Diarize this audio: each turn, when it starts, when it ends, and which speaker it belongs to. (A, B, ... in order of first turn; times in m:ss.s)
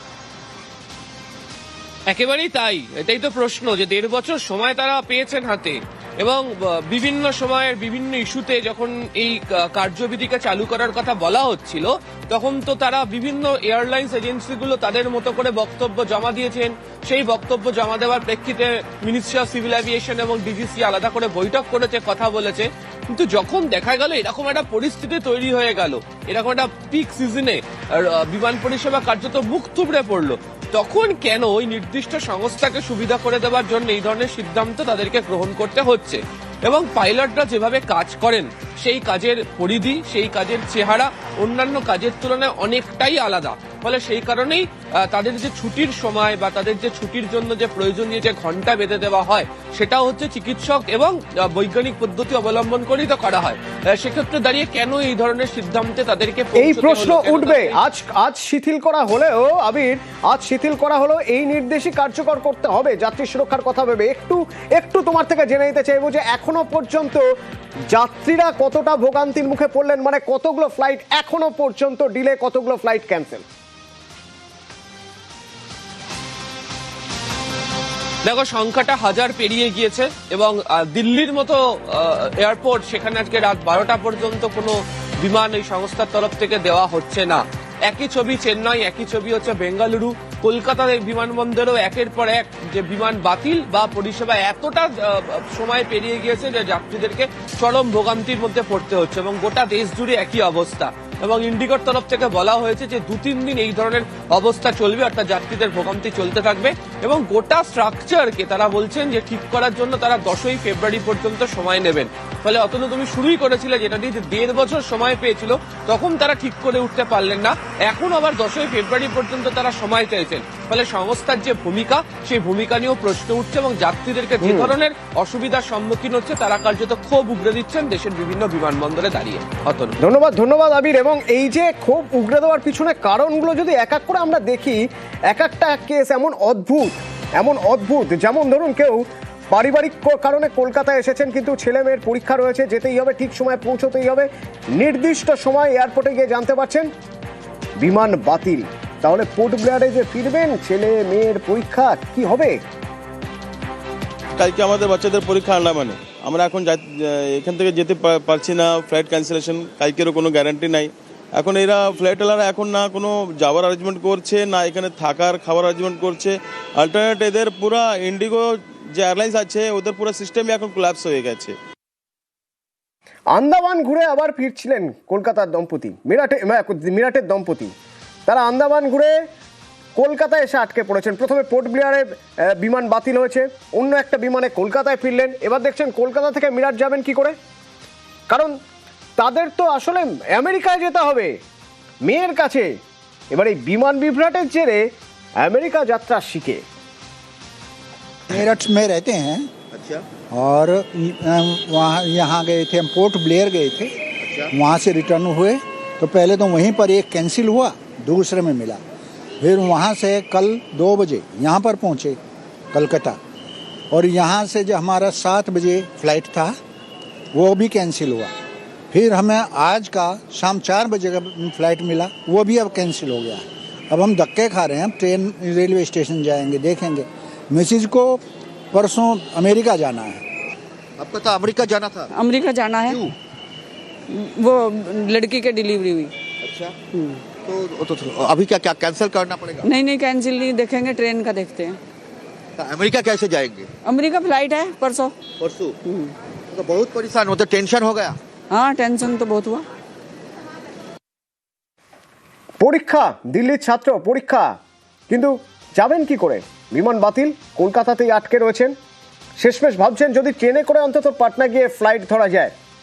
0:02.1-0:57.8 A
0:56.6-1:07.2 B
1:07.9-1:13.4 B
1:18.2-2:10.0 A
2:04.4-2:04.7 B
2:10.0-2:26.9 B
2:27.8-2:32.6 B
2:34.4-2:51.6 C
2:53.3-2:57.7 B
2:58.3-2:59.2 B
3:00.0-3:07.4 B
3:08.3-3:08.6 B
3:09.2-3:11.4 B
3:12.0-3:12.8 B
3:13.3-3:14.9 B
3:15.4-3:16.6 B
3:18.3-3:19.5 D
3:19.7-3:20.0 E
3:20.3-3:23.9 D
3:24.2-3:24.5 E
3:24.5-3:28.8 D
3:29.4-3:32.2 D
3:32.7-3:33.2 D
3:33.9-3:36.6 D
3:37.3-3:38.3 D
3:38.9-3:48.2 D
3:48.7-3:50.2 D
3:51.0-3:52.1 E
3:52.2-3:52.9 F
3:54.2-3:56.1 F
3:56.4-3:56.8 E
3:57.4-3:59.7 E
3:59.8-4:01.8 F
4:02.6-4:03.7 E
4:03.9-4:05.1 F
4:05.4-4:05.8 E
4:06.5-4:08.2 E
4:08.6-4:09.6 F
4:12.6-4:14.5 B
4:15.1-4:18.7 B
4:19.4-4:22.5 B